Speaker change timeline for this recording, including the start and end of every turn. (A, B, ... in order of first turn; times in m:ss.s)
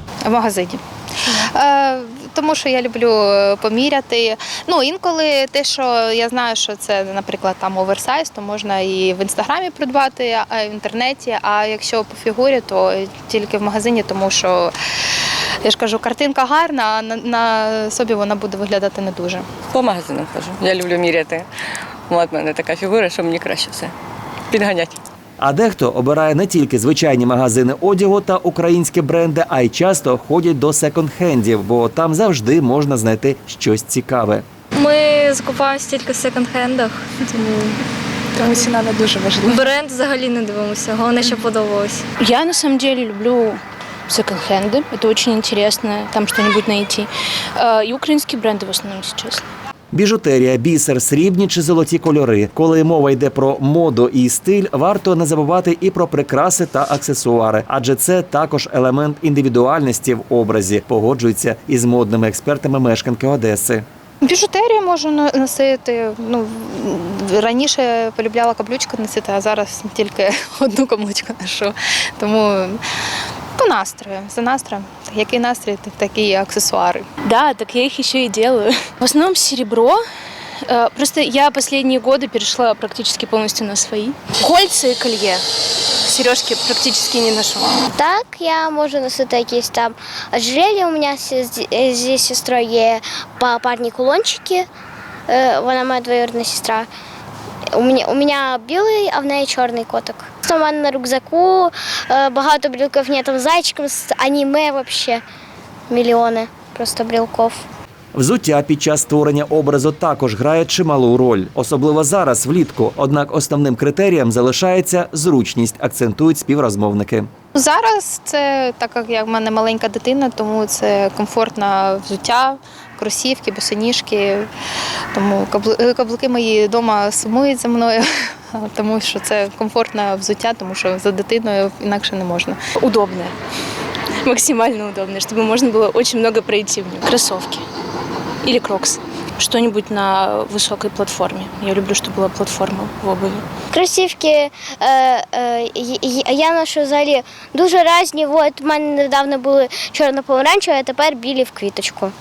0:00.2-0:14.7 A
0:15.6-0:19.4 A
0:19.7-0:21.5 B
0:22.1-0:23.9 B
0:24.5-0:25.0 B
0:25.4-0:34.4 C
0:34.7-0:37.0 D
0:37.3-0:37.7 A
0:38.4-0:39.5 A
0:39.4-0:42.0 D
0:42.2-0:49.4 E
0:49.9-1:03.8 C
1:04.2-1:12.8 A
1:13.6-1:17.0 A
1:17.2-1:20.0 E
1:20.6-1:25.4 E
1:26.0-1:27.9 E
1:27.9-1:34.7 F
1:35.3-1:36.9 F
1:37.7-1:45.2 F
1:45.9-1:47.6 F
1:48.1-1:57.3 C
1:57.5-2:04.5 A
2:05.1-2:12.6 A
2:12.8-2:13.3 E
2:14.2-2:17.6 E
2:18.4-2:23.4 E
2:23.7-2:32.1 F